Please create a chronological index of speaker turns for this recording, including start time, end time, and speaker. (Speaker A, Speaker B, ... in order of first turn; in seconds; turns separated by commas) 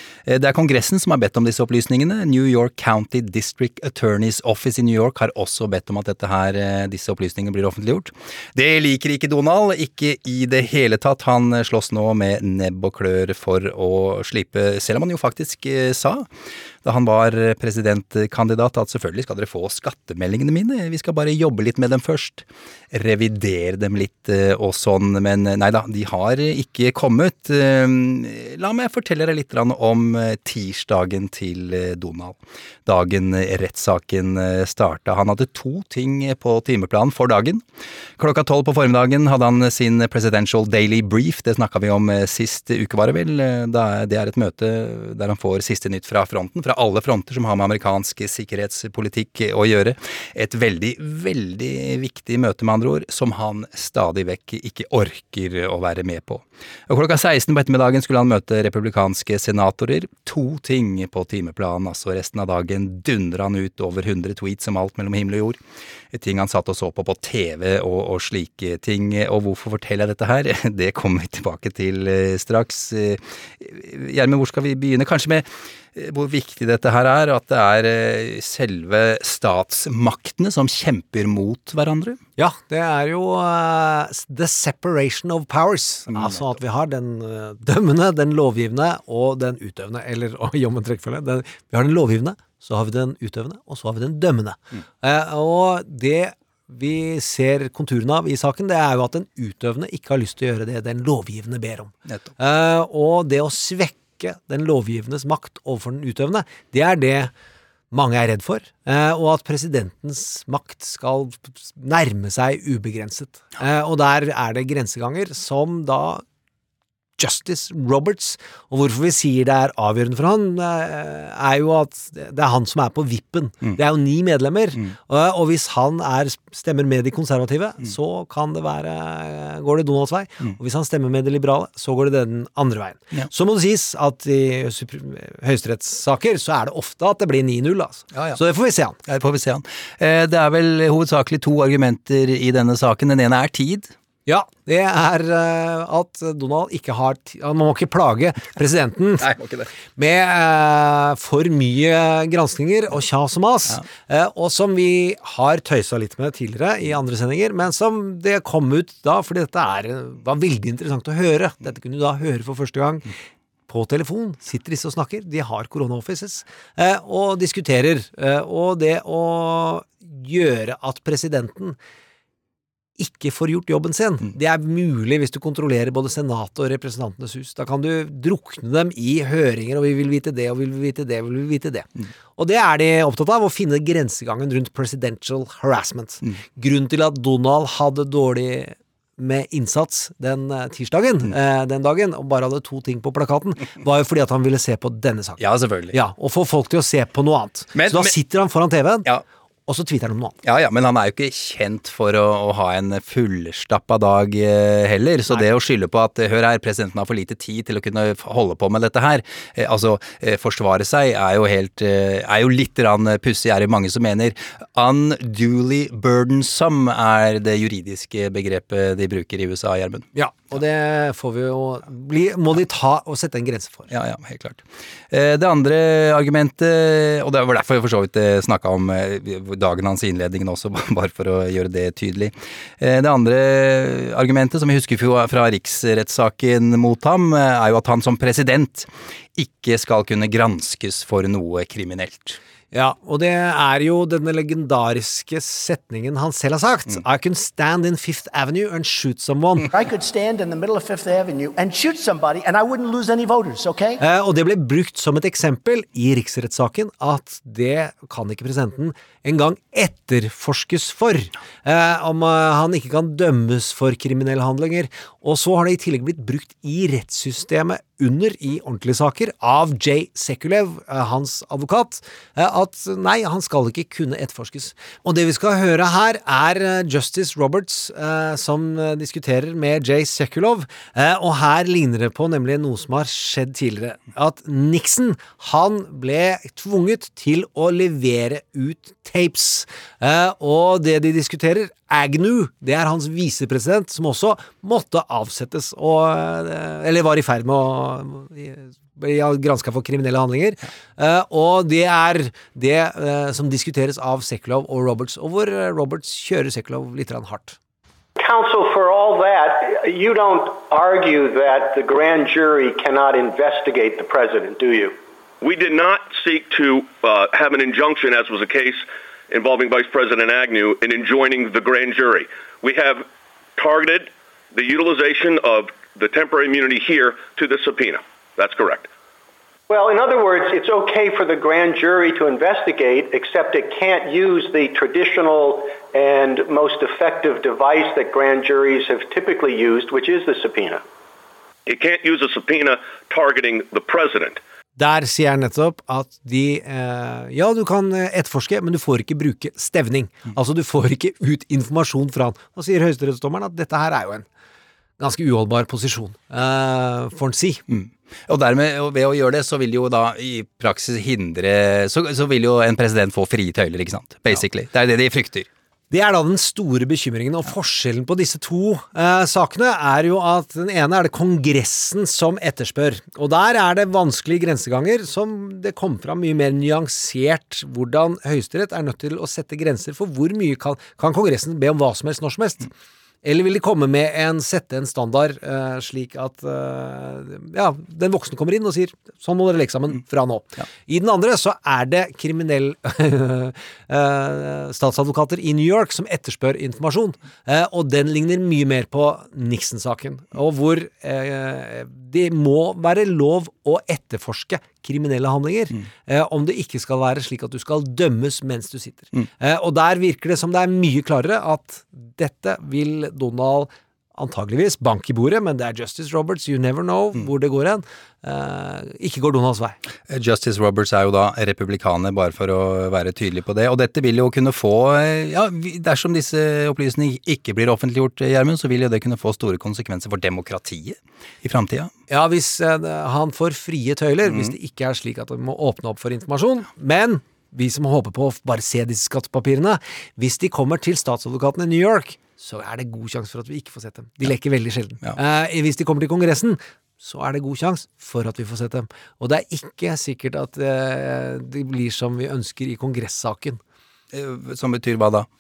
Speaker A: 0.3-16.3, Speaker A: 16.8-37.6, Speaker A: 38.2-65.6, Speaker A: 66.1-82.2, Speaker B: 82.4-107.3, Speaker A: 86.1-86.4, Speaker B: 107.9-116.2, Speaker B: 117.2-139.0, Speaker A: 138.1-138.4, Speaker A: 139.1-143.9, Speaker B: 144.3-149.3, Speaker A: 149.2-149.7, Speaker B: 149.9-163.1, Speaker B: 163.7-171.8, Speaker B: 173.0-199.1, Speaker A: 195.4-196.0, Speaker A: 197.8-198.2, Speaker B: 199.7-200.4, Speaker A: 200.4-220.1, Speaker B: 220.2-223.9, Speaker A: 223.9-242.4, Speaker B: 242.7-249.7, Speaker C: 249.7-254.0, Speaker B: 254.0-307.6, Speaker D: 308.2-315.0, Speaker E: 315.4-328.9, Speaker D: 329.7-340.8, Speaker E: 341.7-344.4, Speaker B: 344.8-354.3, Speaker B: 355.0-357.6, Speaker A: 357.7-365.5, Speaker B: 365.9-382.7, Speaker B: 383.2-419.8, Speaker A: 420.1-431.9, Speaker B: 432.1-453.6, Speaker A: 434.2-434.5, Speaker A: 454.1-455.3